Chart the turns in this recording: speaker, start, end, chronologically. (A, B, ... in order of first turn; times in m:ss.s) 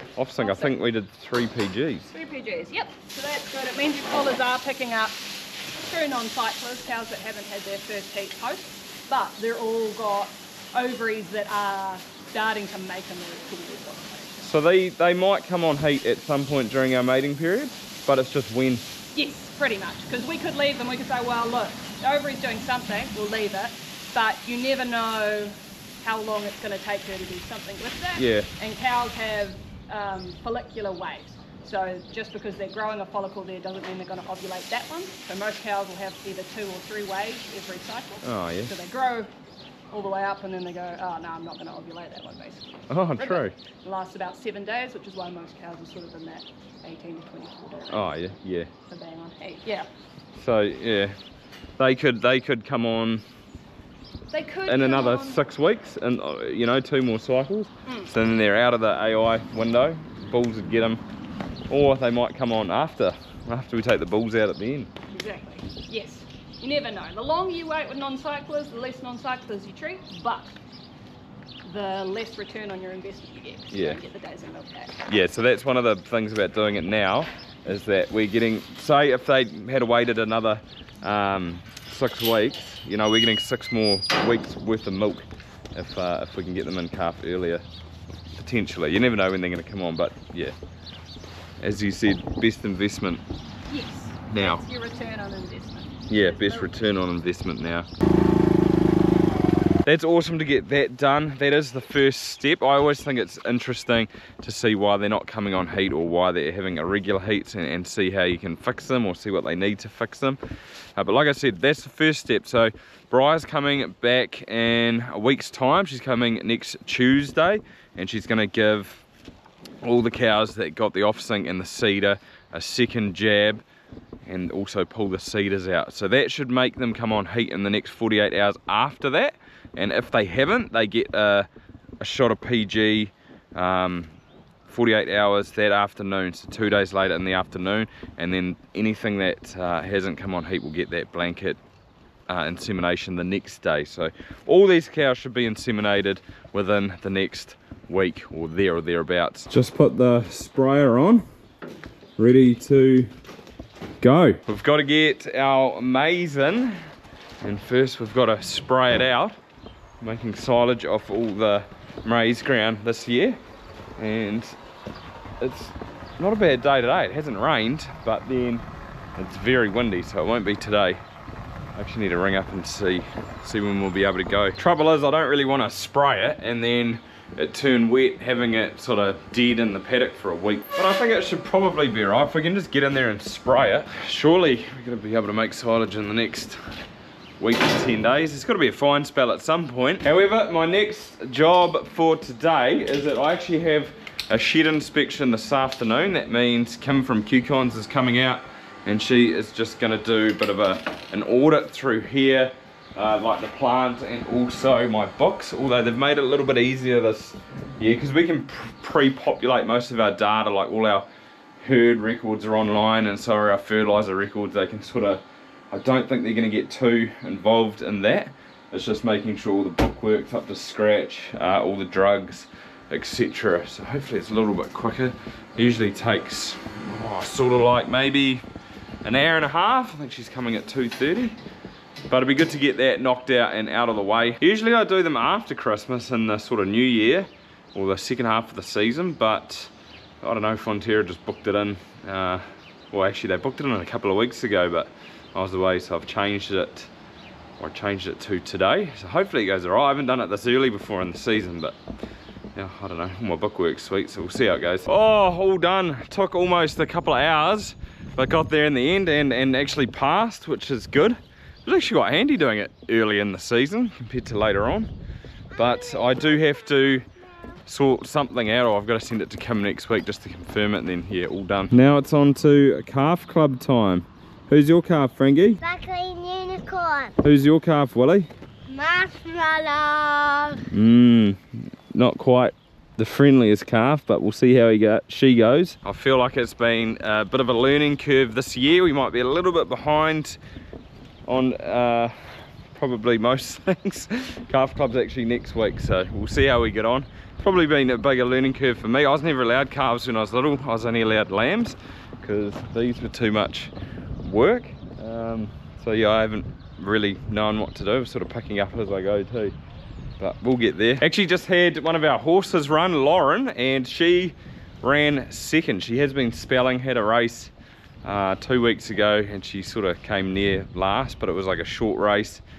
0:00.2-0:02.1 A
0:00.4-0:00.8 B
0:02.1-0:14.5 B
0:14.4-0:18.8 A
0:19.1-0:39.3 B
0:28.2-0:28.5 A
0:38.2-0:38.7 A
0:39.9-0:48.2 B
0:42.9-0:43.6 A
0:47.9-0:48.7 A
0:48.9-0:49.9 B
0:50.4-0:51.2 A
0:51.8-0:53.2 A
0:54.3-0:55.4 B
0:54.7-1:01.0 A
0:57.9-0:58.1 B
1:01.7-1:04.9 A
1:05.1-1:10.6 B
1:11.7-1:15.0 B
1:13.7-1:14.0 A
1:15.1-1:27.6 A
1:28.3-1:30.6 A
1:31.6-1:33.2 A
1:33.7-1:36.7 B
1:34.3-1:34.6 A
1:36.1-1:37.9 A
1:39.8-1:50.4 A
1:51.0-1:59.0 A
1:59.8-2:03.6 A
2:04.3-2:11.5 A
2:12.0-2:14.2 A
2:14.7-2:21.6 A
2:22.3-2:31.2 A
2:32.2-2:33.1 A
2:34.0-2:36.8 A
2:37.4-2:39.4 A
2:40.0-2:43.4 A
2:44.0-2:44.6 A
2:45.4-2:48.6 A
2:49.2-2:51.0 A
2:51.8-3:06.6 A
3:07.4-3:31.1 A
3:31.6-3:48.4 A
3:49.0-3:51.4 A
3:52.1-3:59.7 A
4:00.2-4:06.9 A
4:07.6-4:11.8 A
4:12.6-4:24.9 A
4:25.5-4:27.1 A
4:27.7-4:35.6 A
4:35.6-4:37.2 C
4:37.2-4:38.3 A
4:38.7-4:40.6 C
4:40.7-4:41.4 A
4:41.9-4:50.4 A
4:51.3-5:03.7 A
5:04.2-5:09.5 A
5:10.2-5:17.5 A
5:18.0-5:22.4 A